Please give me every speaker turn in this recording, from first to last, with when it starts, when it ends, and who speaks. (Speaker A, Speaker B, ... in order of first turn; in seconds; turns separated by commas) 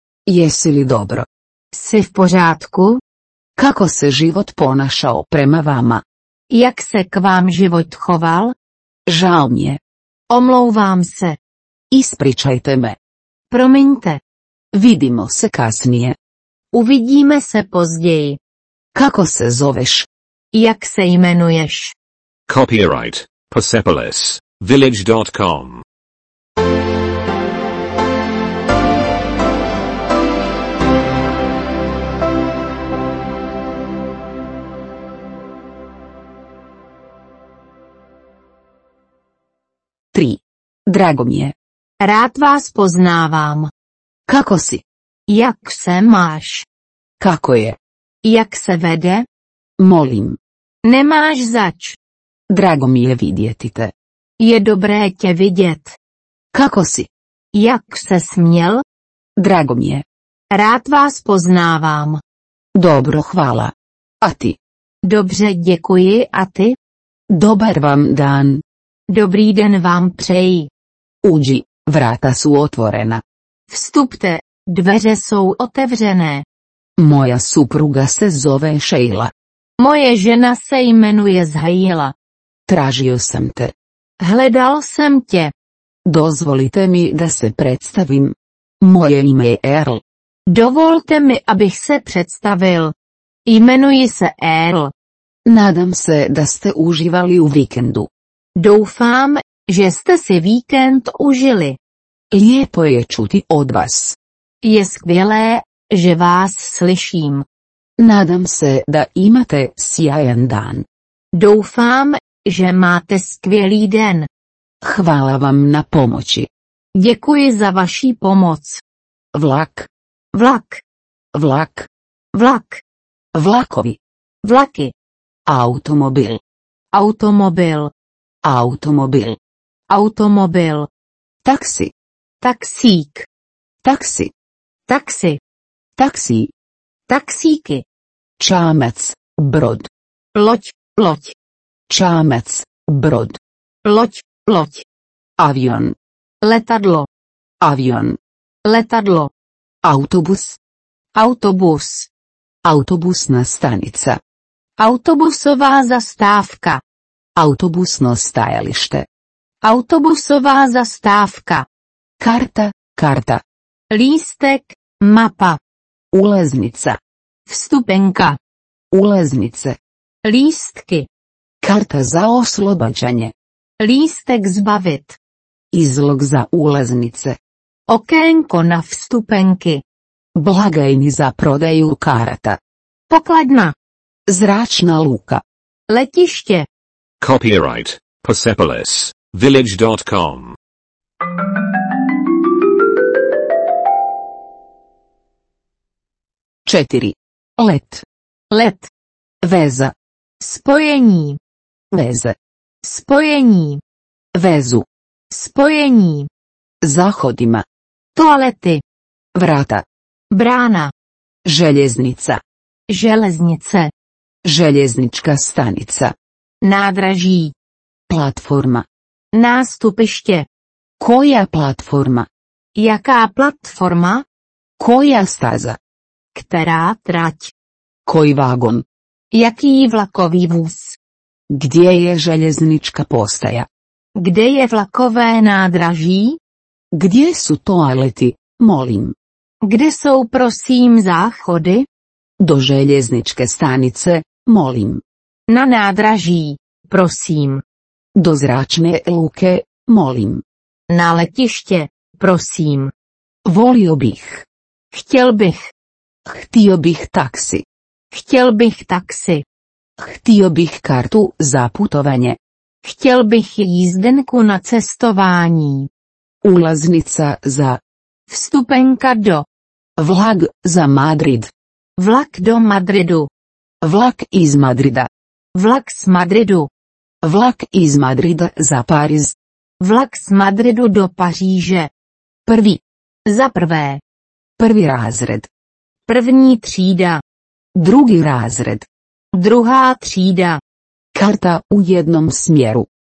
Speaker A: 0.3-1.3, Speaker B: 1.7-3.0, Speaker A: 3.6-6.0, Speaker B: 6.5-8.5, Speaker A: 9.1-9.8, Speaker B: 10.3-11.4, Speaker A: 11.9-13.0, Speaker B: 13.5-14.2, Speaker A: 14.7-16.1, Speaker B: 16.7-18.4, Speaker A: 18.9-20.1, Speaker B: 20.5-21.9, Speaker C: 22.5-25.8, Speaker A: 40.1-41.5, Speaker B: 42.0-43.7, Speaker A: 44.3-44.8, Speaker B: 45.3-46.6, Speaker A: 47.2-47.8, Speaker B: 48.2-49.2, Speaker A: 49.8-50.4, Speaker B: 50.8-52.0, Speaker A: 52.5-53.9, Speaker B: 54.4-56.0, Speaker A: 56.5-57.1, Speaker B: 57.5-58.8, Speaker A: 59.4-60.0, Speaker B: 60.5-62.2, Speaker A: 62.7-64.6, Speaker B: 65.0-66.7, Speaker A: 67.3-68.6, Speaker B: 69.1-70.7, Speaker A: 71.2-73.2, Speaker B: 73.7-76.4, Speaker A: 77.0-79.3, Speaker B: 79.8-82.1, Speaker A: 82.7-83.7, Speaker B: 84.2-85.5, Speaker A: 86.0-90.0, Speaker B: 90.5-92.9, Speaker B: 93.5-94.9, Speaker A: 95.5-98.1, Speaker B: 98.6-101.8, Speaker A: 102.3-104.2, Speaker B: 104.6-107.5, Speaker A: 108.0-110.8, Speaker B: 111.3-114.3, Speaker A: 114.8-116.5, Speaker B: 116.9-118.8, Speaker A: 119.3-119.9, Speaker B: 120.3-120.8, Speaker A: 121.3-121.9, Speaker B: 122.3-122.8, Speaker A: 123.3-124.0, Speaker B: 124.4-124.9, Speaker A: 125.5-126.4, Speaker B: 126.9-127.9, Speaker A: 128.4-129.4, Speaker B: 129.9-130.9, Speaker A: 131.4-131.9, Speaker B: 132.4-133.3, Speaker A: 133.8-134.3, Speaker B: 134.9-135.4, Speaker A: 136.0-136.5, Speaker B: 137.1-137.8, Speaker A: 138.4-139.9, Speaker B: 140.3-141.3, Speaker A: 141.9-143.4, Speaker B: 143.8-144.8, Speaker A: 145.4-145.9, Speaker B: 146.4-147.1, Speaker A: 147.6-148.2, Speaker B: 148.6-149.3, Speaker A: 149.8-150.6, Speaker B: 151.1-152.1, Speaker A: 152.6-154.2, Speaker B: 154.8-156.8, Speaker A: 157.3-159.1, Speaker B: 159.6-161.7, Speaker A: 162.2-163.4, Speaker B: 163.9-165.6, Speaker A: 166.1-167.0, Speaker B: 167.5-168.4, Speaker A: 168.9-169.8, Speaker B: 170.2-171.1, Speaker A: 171.6-173.3, Speaker B: 173.8-175.2, Speaker A: 175.7-177.4, Speaker B: 177.9-179.8, Speaker A: 180.3-182.6, Speaker B: 183.1-183.7, Speaker A: 184.3-185.4, Speaker B: 185.9-186.7, Speaker C: 187.2-190.6, Speaker A: 196.7-198.0, Speaker B: 198.5-198.9, Speaker A: 199.4-199.9, Speaker B: 200.4-201.4, Speaker A: 201.9-202.3, Speaker B: 202.8-203.8, Speaker A: 204.3-204.8, Speaker B: 205.3-206.3, Speaker A: 206.8-207.6, Speaker B: 208.1-208.8, Speaker A: 209.3-209.8, Speaker B: 210.3-210.9, Speaker A: 211.4-212.4, Speaker B: 212.9-213.9, Speaker A: 214.4-216.1, Speaker B: 216.6-217.5, Speaker A: 218.1-218.8, Speaker B: 219.3-220.5, Speaker A: 221.0-222.3, Speaker B: 222.8-224.2, Speaker A: 224.8-225.8, Speaker B: 226.3-227.5, Speaker A: 228.1-228.8, Speaker B: 229.3-231.0, Speaker A: 231.5-233.7, Speaker B: 234.2-236.4, Speaker A: 236.9-239.1, Speaker B: 239.6-241.8, Speaker A: 242.4-245.0, Speaker B: 245.5-247.6, Speaker A: 248.2-250.4, Speaker B: 250.9-252.9, Speaker A: 253.4-254.4, Speaker B: 254.9-255.7, Speaker A: 256.2-257.6, Speaker B: 258.1-259.4, Speaker A: 260.0-262.4, Speaker B: 262.8-265.9, Speaker A: 266.4-267.8, Speaker B: 268.3-269.4, Speaker A: 270.0-271.5, Speaker B: 272.0-273.3, Speaker A: 273.8-275.1, Speaker B: 275.5-276.7, Speaker A: 277.2-279.4, Speaker B: 279.8-281.9, Speaker A: 282.5-282.8, Speaker B: 283.2-284.0, Speaker A: 284.6-285.5, Speaker B: 286.1-287.2, Speaker A: 287.8-288.9, Speaker B: 289.3-290.6, Speaker A: 291.1-292.9